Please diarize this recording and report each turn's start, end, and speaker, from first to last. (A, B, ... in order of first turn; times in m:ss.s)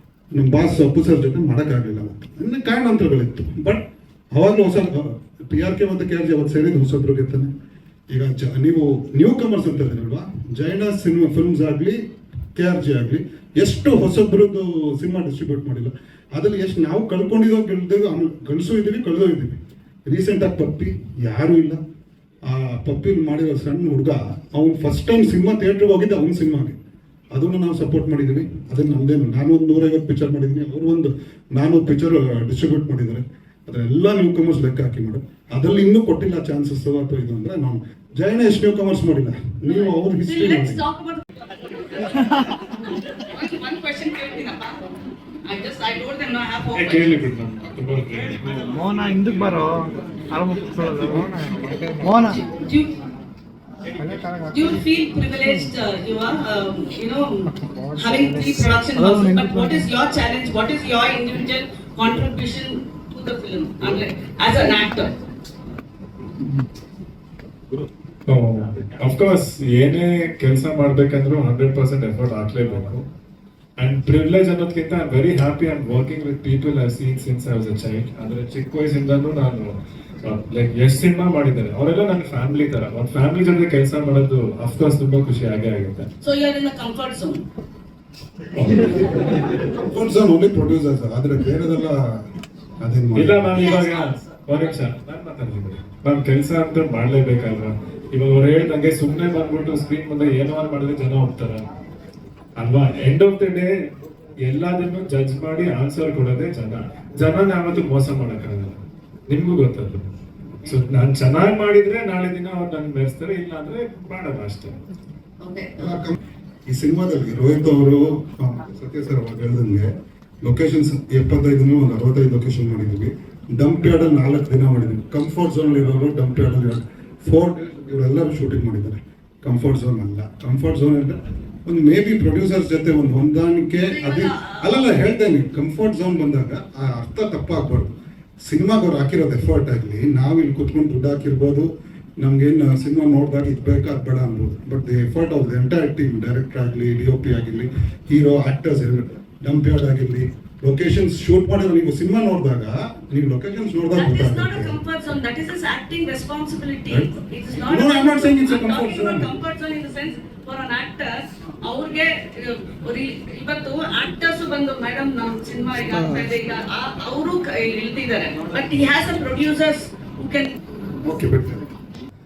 0:00.3-0:07.5 A
0:08.1-0:12.0 A
0:12.5-0:21.8 A
0:22.4-0:26.8 A
0:27.3-0:40.8 A
0:39.6-0:41.4 B
0:41.9-0:44.8 B
0:45.4-0:47.1 B
0:46.7-0:48.7 C
0:48.6-0:52.4 D
0:52.1-0:52.9 B
0:54.0-0:54.5 D
0:54.5-1:05.1 B
0:57.7-0:58.0 D
0:59.0-0:59.8 D
1:08.3-1:13.0 C
1:13.8-1:26.1 C
1:26.2-1:27.4 B
1:28.5-1:29.4 C
1:29.2-1:32.2 A
1:32.8-1:33.6 A
1:33.1-1:41.6 C
1:33.5-1:34.4 B
1:42.6-1:43.7 C
1:44.4-1:48.8 C
1:49.3-1:50.0 C
1:50.6-1:54.7 C
1:55.4-1:56.0 B
1:55.8-1:56.2 A
1:56.7-1:59.9 A
2:00.4-2:34.8 A
2:13.9-2:14.8 B
2:33.9-2:50.6 B
2:36.9-2:39.3 A
2:51.0-2:51.7 A